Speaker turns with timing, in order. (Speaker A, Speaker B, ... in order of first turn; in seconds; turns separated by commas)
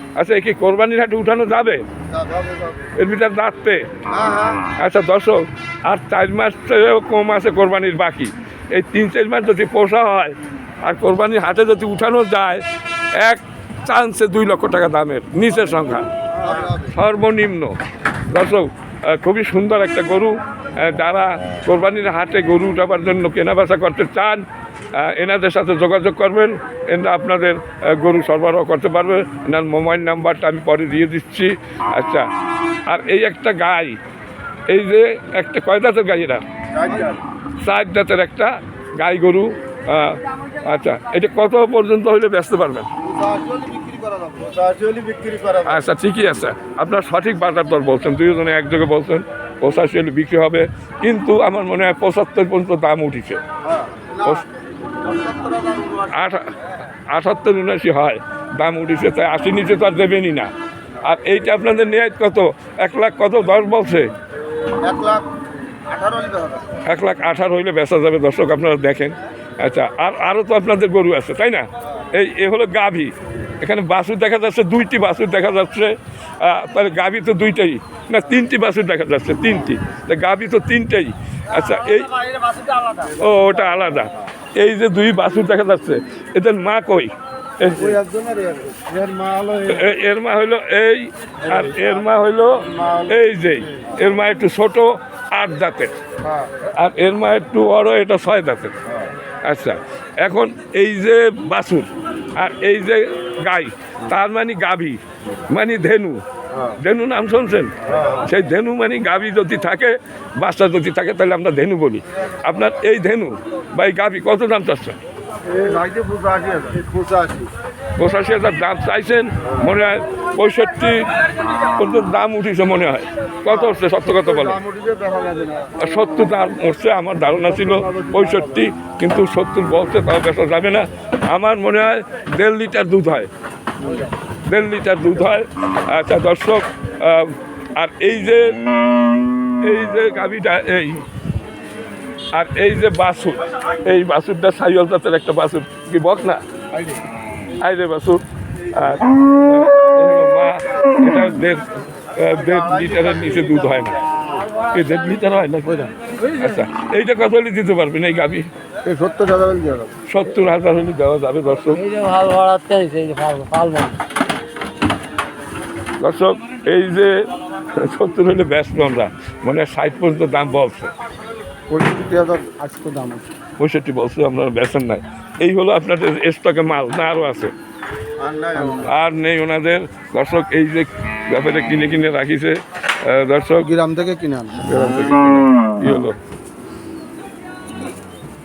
Speaker A: 0.1-1.9, Speaker B: 2.1-2.9, Speaker A: 2.9-3.9, Speaker B: 4.1-4.7, Speaker A: 4.8-16.1, Speaker B: 16.3-16.9, Speaker A: 16.9-17.8, Speaker A: 18.3-32.3, Speaker A: 32.9-34.0, Speaker A: 34.7-36.4, Speaker B: 36.7-37.2, Speaker A: 37.6-42.9, Speaker B: 43.0-45.8, Speaker A: 45.6-53.4, Speaker B: 53.6-54.4, Speaker B: 55.0-56.3, Speaker A: 56.1-56.5, Speaker A: 57.1-60.5, Speaker A: 61.0-64.1, Speaker B: 64.8-65.3, Speaker B: 65.8-66.8, Speaker A: 66.8-82.2, Speaker C: 81.9-83.1, Speaker A: 83.2-88.0, Speaker B: 83.2-84.0, Speaker B: 87.7-89.9, Speaker A: 89.7-96.0, Speaker B: 91.4-92.0, Speaker B: 92.5-93.9, Speaker B: 96.2-96.5, Speaker A: 96.7-98.7, Speaker A: 99.4-106.2, Speaker B: 106.5-106.8, Speaker A: 106.8-115.0, Speaker B: 107.8-108.3, Speaker B: 115.5-117.5, Speaker A: 118.0-124.6, Speaker B: 123.5-126.0, Speaker A: 125.8-133.3, Speaker B: 127.3-128.7, Speaker B: 133.8-134.1, Speaker A: 134.5-138.6, Speaker A: 139.6-141.0, Speaker A: 142.3-146.4, Speaker A: 147.6-154.0, Speaker B: 152.3-153.9, Speaker A: 154.7-158.5, Speaker B: 158.8-160.0, Speaker A: 160.1-161.8, Speaker C: 161.8-164.0, Speaker A: 166.0-170.9, Speaker B: 171.7-172.6, Speaker C: 172.6-173.2, Speaker A: 173.6-177.5, Speaker B: 178.2-178.9, Speaker A: 178.7-183.7, Speaker B: 183.6-184.7, Speaker A: 184.6-186.2